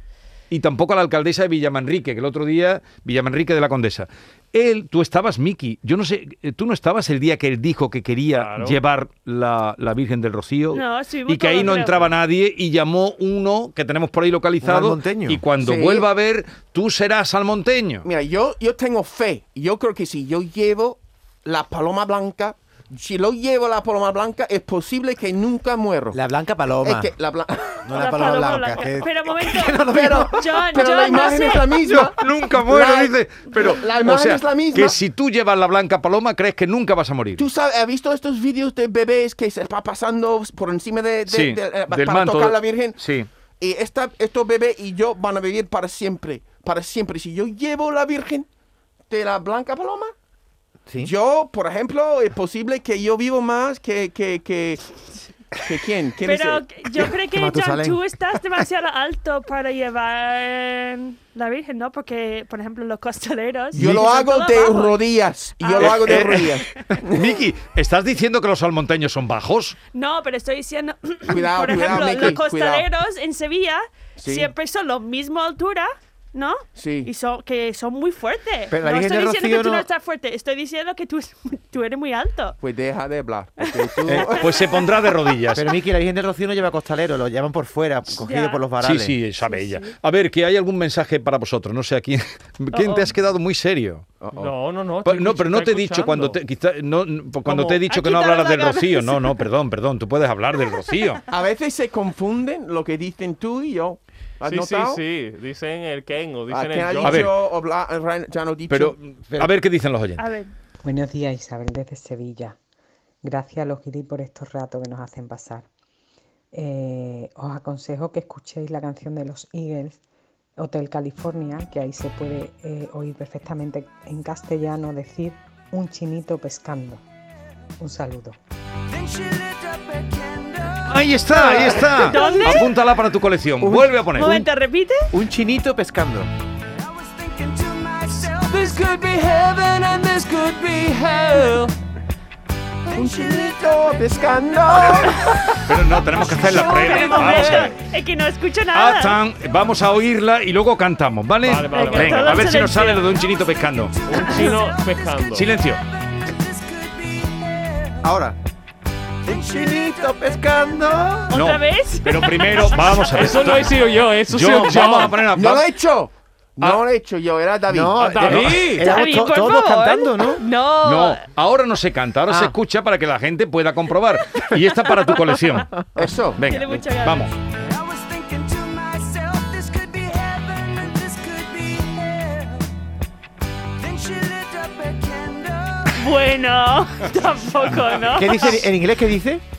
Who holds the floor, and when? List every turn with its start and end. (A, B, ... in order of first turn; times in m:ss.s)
0:00.5-0:18.1 A
0:08.3-0:08.8 B
0:10.7-0:12.1 C
0:14.6-0:15.4 D
0:15.6-0:16.1 E
0:18.0-0:26.2 E
0:26.1-0:27.1 D
0:26.8-0:27.9 E
0:27.8-0:30.7 D
0:27.9-0:31.7 C
0:29.9-0:35.0 E
0:31.8-0:37.5 A
0:37.4-0:43.0 E
0:41.3-0:43.3 A
0:43.6-0:48.5 E
0:49.1-0:50.1 E
0:51.0-0:54.8 E
0:55.6-0:56.6 E
0:56.2-1:05.0 C
0:57.3-0:58.0 D
1:03.7-1:07.4 E
1:05.6-1:06.5 C
1:05.8-1:09.8 A
1:09.9-1:22.6 C
1:11.3-1:12.9 E
1:14.2-1:14.5 E
1:16.8-1:17.1 E
1:18.7-1:19.9 D
1:22.6-1:24.8 E
1:23.7-1:25.3 C
1:24.1-1:25.7 A
1:25.5-1:29.2 D
1:28.2-1:28.6 C
1:28.8-1:34.1 A
1:29.4-1:30.0 C
1:32.7-1:33.1 C
1:34.2-1:34.5 E
1:34.4-1:36.4 B
1:35.0-1:41.2 A
1:37.4-1:37.8 B
1:37.9-1:39.4 C
1:41.3-1:45.0 E
1:44.4-1:47.3 B
1:46.5-1:49.0 E
1:47.0-1:47.3 A
1:48.7-1:50.2 A
1:50.2-1:50.5 C
1:50.8-1:52.6 F
1:53.2-1:55.7 F
1:56.5-2:00.0 F
2:00.6-2:07.0 F
2:07.8-2:08.4 F
2:08.9-2:12.4 G
2:10.9-2:14.3 A
2:11.3-2:12.7 C
2:13.6-2:14.5 D
2:14.2-2:15.1 C
2:15.1-2:16.3 D
2:16.8-2:19.2 G
2:18.5-2:21.7 B
2:22.9-2:25.4 E
2:23.1-2:23.5 G
2:25.6-2:27.8 A
2:26.1-2:27.4 G
2:26.4-2:27.7 B
2:26.4-2:29.2 C
2:28.7-2:34.0 A
2:31.4-2:32.5 B
2:31.7-2:33.1 C
2:33.3-2:38.0 G
2:34.1-2:35.5 B
2:34.2-2:34.6 C
2:35.3-2:35.8 A
2:38.0-2:38.4 D
2:39.2-2:41.3 D
2:39.3-2:40.3 G
2:41.3-2:43.4 C
2:41.3-2:45.7 A
2:43.0-2:45.2 B
2:45.3-2:48.4 E
2:47.7-2:50.4 D
2:48.0-2:48.9 B
2:48.2-2:48.7 A
2:48.8-2:51.2 C
2:50.8-2:57.3 A
2:52.3-2:52.6 D
2:56.0-2:56.4 E
2:56.4-2:57.3 C
2:57.6-3:02.6 G
3:03.8-3:06.1 G
3:05.9-3:08.6 C
3:08.1-3:09.4 D